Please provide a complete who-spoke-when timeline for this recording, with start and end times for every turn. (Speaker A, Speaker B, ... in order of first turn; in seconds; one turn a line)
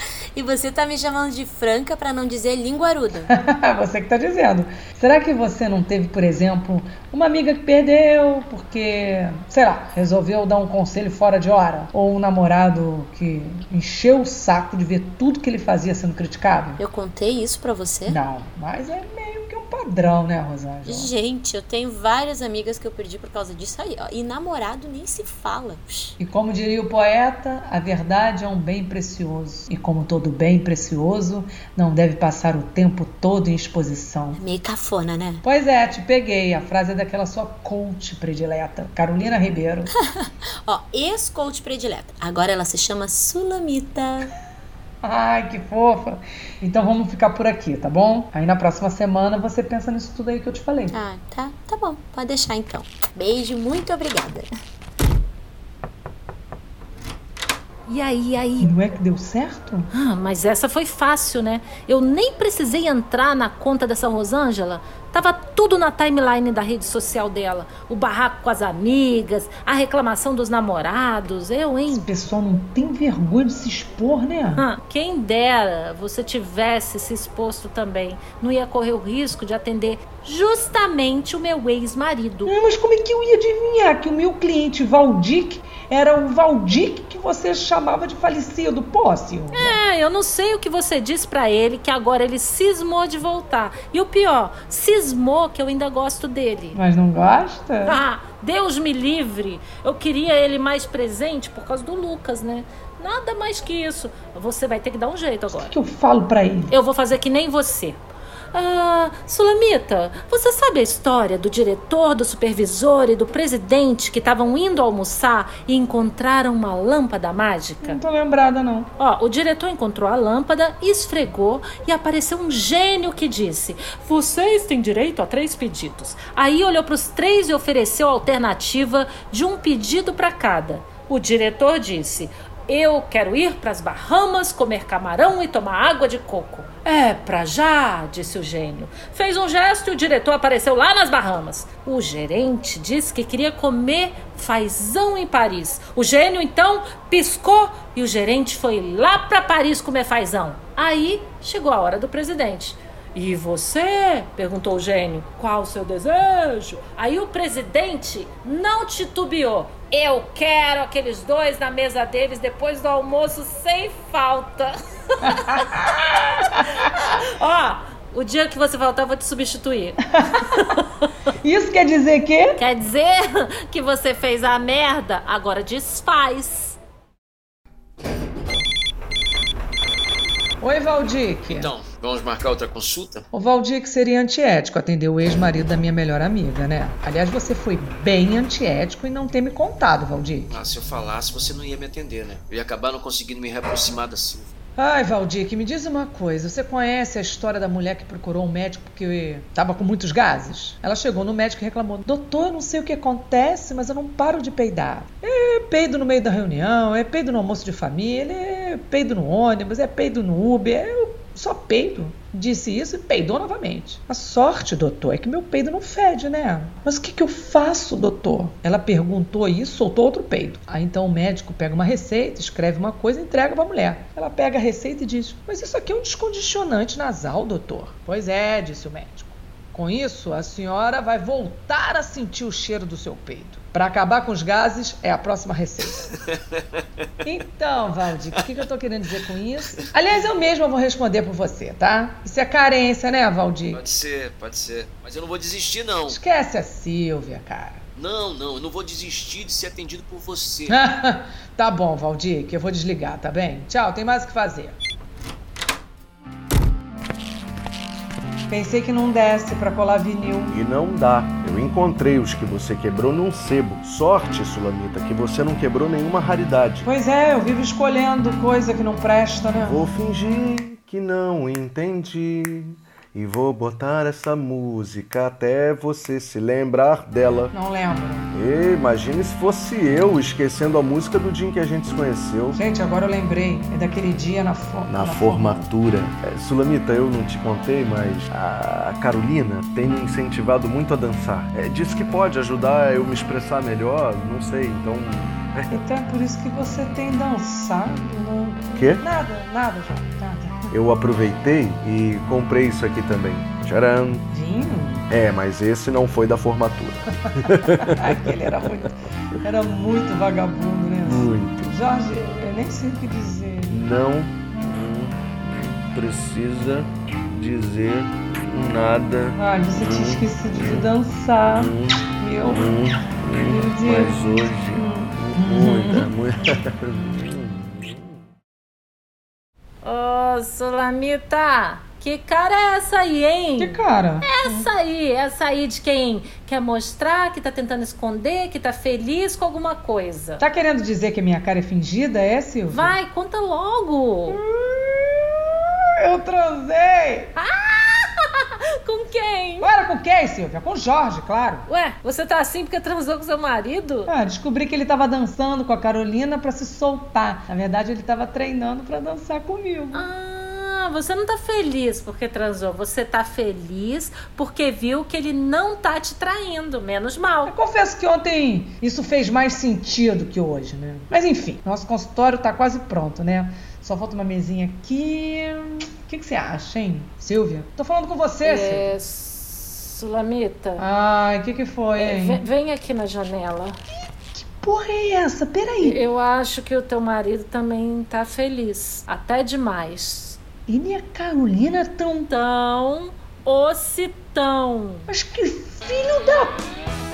Speaker A: 0.3-3.3
Speaker B: 3.3-16.8
Speaker A: 16.8-18.2
Speaker B: 18.1-21.1
Speaker A: 20.8-26.1
Speaker B: 26.2-34.4
Speaker A: 34.3-35.4
Speaker B: 35.4-39.9
Speaker A: 40.6-44.3
Speaker B: 45.0-50.9
Speaker A: 50.9-54.5
Speaker C: 57.9-58.7
Speaker B: 58.6-59.9
Speaker C: 59.9-72.1
Speaker B: 71.9-74.7
Speaker C: 74.5-82.5
Speaker B: 82.5-89.8
Speaker C: 89.5-96.8
Speaker B: 96.7-98.0
Speaker C: 97.8-105.7
Speaker B: 105.5-106.7
Speaker C: 106.7-108.0
Speaker C: 108.5-118.0
Speaker B: 117.8-118.9
Speaker C: 119.0-164.7
Speaker C: 165.2-170.8
Speaker B: 165.3-165.9
Speaker B: 170.1-170.5
Speaker B: 171.4-172.6
Speaker C: 172.6-176.8
Speaker B: 180.6-181.7
Speaker D: 181.5-183.3
Speaker B: 183.3-190.6
Speaker D: 190.5-194.5
Speaker B: 194.8-236.0
Speaker B: 237.2-243.8
Speaker D: 243.7-246.2
Speaker B: 246.1-247.8
Speaker D: 248.0-250.8
Speaker B: 250.7-254.8
Speaker B: 258.5-260.6
Speaker E: 260.5-266.9
Speaker B: 266.9-269.8
Speaker E: 269.6-277.5
Speaker B: 277.5-278.3
Speaker E: 278.3-282.6
Speaker B: 282.5-285.6
Speaker E: 284.9-295.8
Speaker B: 295.7-300.7
Speaker E: 298.8-299.0
Speaker E: 300.7-304.2
Speaker B: 304.3-305.1
Speaker E: 305.1-308.0
Speaker B: 307.8-313.8
Speaker E: 311.0-311.7
Speaker E: 313.7-320.9
Speaker B: 319.4-322.7
Speaker E: 321.5-328.1
Speaker B: 323.4-326.1
Speaker C: 329.8-340.4
Speaker B: 333.6-334.7
Speaker B: 340.4-343.0
Speaker C: 342.7-344.4
Speaker B: 344.3-347.3
Speaker C: 347.4-349.7
Speaker B: 349.6-351.7
Speaker C: 351.7-354.1
Speaker B: 354.1-360.1
Speaker C: 359.9-367.5
Speaker B: 367.4-378.9
Speaker C: 378.4-380.8
Speaker B: 380.8-382.4
Speaker C: 382.0-383.8
Speaker B: 384.3-386.0
Speaker C: 385.8-390.4
Speaker B: 390.7-392.3
Speaker C: 392.2-395.1
Speaker B: 395.1-396.6